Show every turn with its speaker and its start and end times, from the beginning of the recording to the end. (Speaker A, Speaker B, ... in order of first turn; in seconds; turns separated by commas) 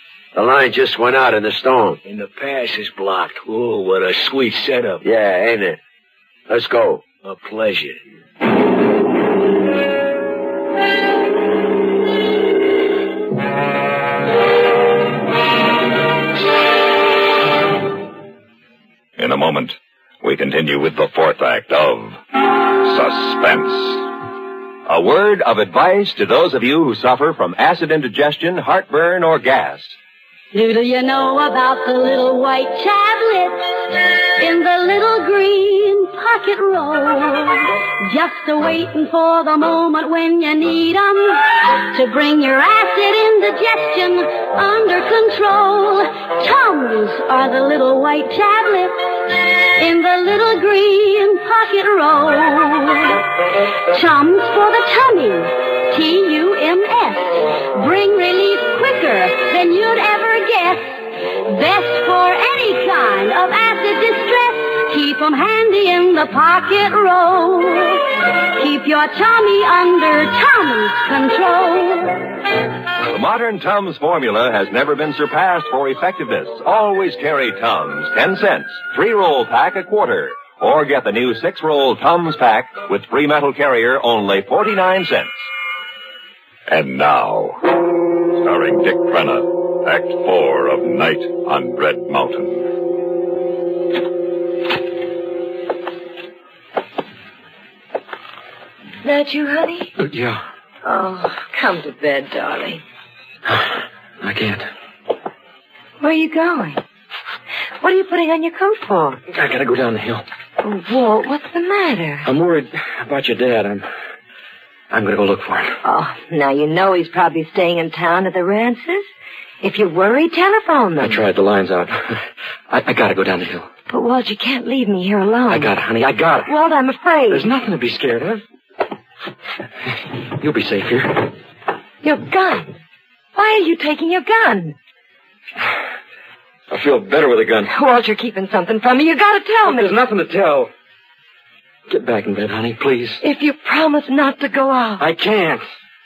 Speaker A: 0.3-2.0, Speaker B: 2.1-5.0, Speaker A: 5.0-5.8, Speaker A: 6.5-7.0, Speaker B: 7.2-8.0, Speaker C: 19.2-22.2, Speaker C: 22.8-24.1, Speaker D: 24.9-30.0, Speaker E: 30.5-53.3, Speaker E: 53.9-72.3, Speaker D: 73.1-85.5, Speaker C: 86.7-92.6, Speaker F: 99.0-100.0, Speaker G: 100.0-100.4, Speaker F: 100.8-102.8, Speaker G: 103.5-104.7, Speaker F: 106.0-106.8, Speaker F: 107.8-109.2, Speaker G: 109.3-110.2, Speaker F: 110.6-112.3, Speaker G: 112.2-113.9, Speaker G: 114.9-115.8, Speaker F: 115.8-119.1, Speaker F: 119.6-121.2, Speaker G: 121.0-123.7, Speaker F: 123.9-125.7, Speaker G: 125.5-126.5, Speaker F: 126.5-127.5, Speaker G: 127.3-128.4, Speaker G: 130.3-131.3, Speaker F: 132.0-132.7, Speaker F: 133.3-134.8, Speaker G: 136.7-137.7, Speaker F: 137.7-139.9, Speaker G: 139.6-140.7, Speaker G: 141.9-143.2, Speaker F: 143.2-145.0, Speaker G: 145.0-145.6